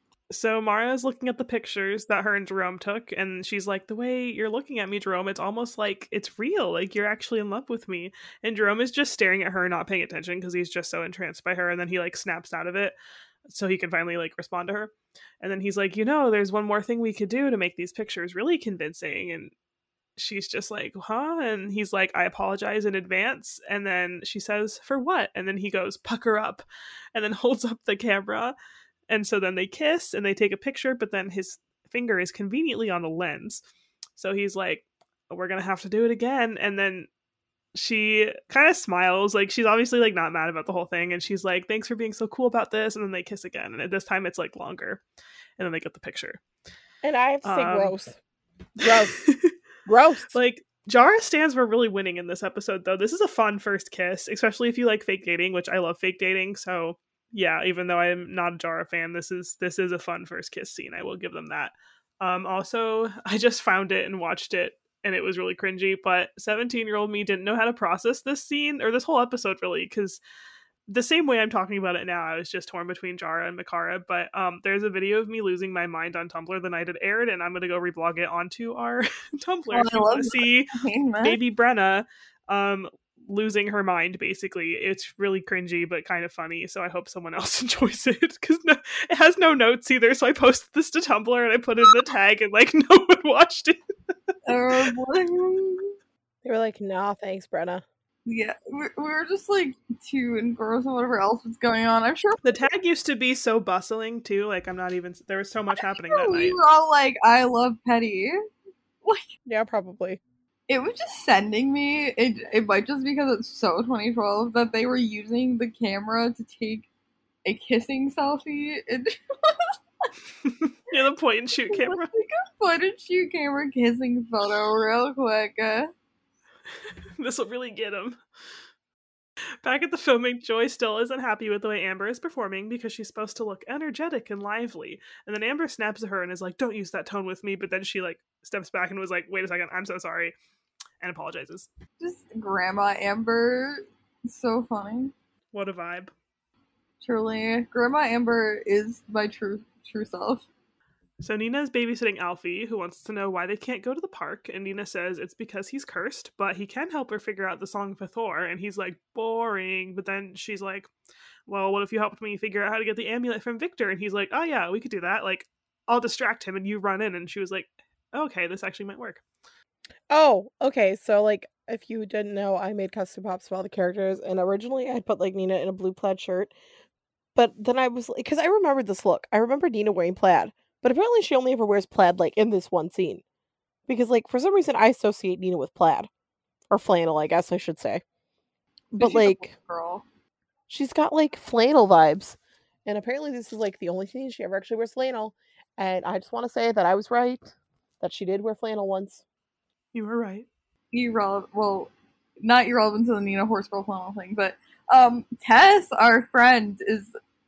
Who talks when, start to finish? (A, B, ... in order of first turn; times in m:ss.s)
0:00.3-0:19.5 A
0:20.2-0:28.5 A
0:29.1-0:33.6 A
0:34.2-0:37.1 A
0:37.7-0:45.0 A
0:45.6-0:46.4 A
0:47.0-0:48.2 B
0:47.4-0:47.9 A
0:48.8-0:49.5 A
0:48.8-0:49.1 B
0:49.8-0:50.3 B
0:50.3-1:10.2 A
1:10.9-1:33.8 A
1:19.7-1:21.4 C
1:34.4-1:36.0 C
1:36.4-1:37.8 B
1:38.3-1:42.7 C
1:42.4-1:46.6 A
1:45.8-1:48.4 C
1:49.4-1:50.2 B
1:50.7-1:56.9 C
1:57.4-1:59.7 C
2:00.5-2:02.1 A
2:01.7-2:05.9 C
2:07.2-2:08.2 A
2:09.6-2:20.3 A
2:21.0-2:21.7 A
2:22.0-2:25.1 C
2:25.5-2:26.1 A
2:27.0-2:30.5 C
2:31.2-2:40.9 A
2:41.5-2:49.2 A
2:50.1-2:56.5 B
2:57.3-3:03.2 B
3:03.9-3:06.1 B
3:06.7-3:08.0 B
3:08.9-3:09.5 B
3:09.0-3:10.0 C
3:10.7-3:19.2 B
3:19.9-3:20.5 A
3:20.9-3:27.1 C